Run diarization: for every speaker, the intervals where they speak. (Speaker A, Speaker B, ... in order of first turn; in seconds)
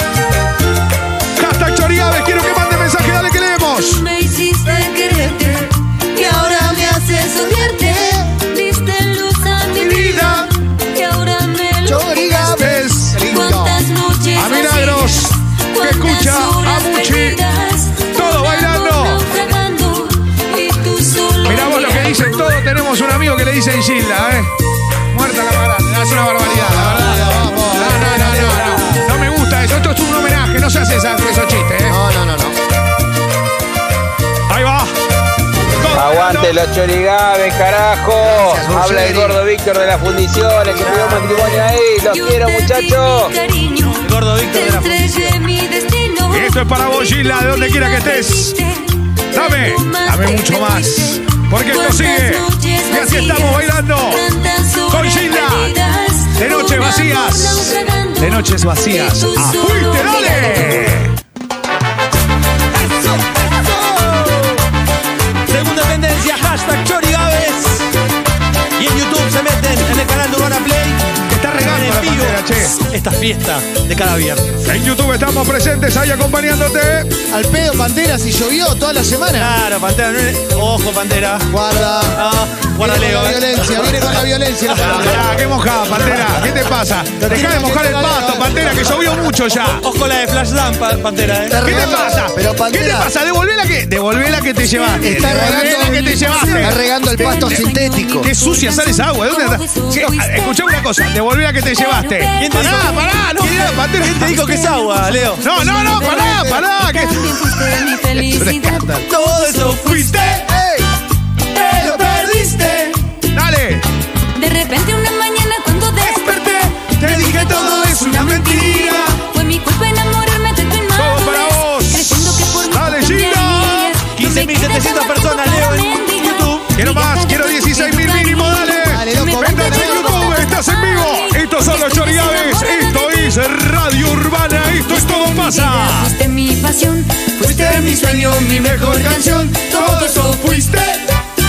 Speaker A: 1.4-4.0, 9.7-10.5, 12.6-13.2, 14.3-17.4, 18.1-19.3, 21.4-24.5, 25.1-32.0, 34.5-34.9, 35.8-36.6, 46.3-48.6, 49.3-54.2, 54.9-55.8, 56.4-61.1, 71.3-72.8, 74.7-77.1, 84.8-89.8, 91.6-97.5, 98.2-104.4, 105.4-107.7, 108.2-109.0, 109.8-110.4, 113.3-113.8, 116.0-119.2, 121.0-124.0, 126.8-136.1, 137.4-141.0
Speaker B: 3.8-22.5, 42.0-61.0, 94.6-100.8, 101.8-102.5, 104.4-110.4, 114.3-133.3, 134.8-140.8
Speaker C: 12.1-13.8, 26.4-28.8, 77.3-79.6, 81.5-85.2, 87.2-88.7, 95.6-95.9, 128.9-130.3
Speaker D: 28.0-29.0, 40.7-41.7, 44.0-45.4, 62.7-64.6, 65.5-67.9, 68.8-74.6, 79.4-81.5, 82.1-84.2, 89.6-91.9, 102.4-105.4, 109.1-110.3, 111.5-113.0, 124.0-126.7
Speaker E: 31.9-32.6, 38.2-39.4, 91.5-93.1, 95.0-98.3, 110.5-110.9
Speaker F: 36.0-43.3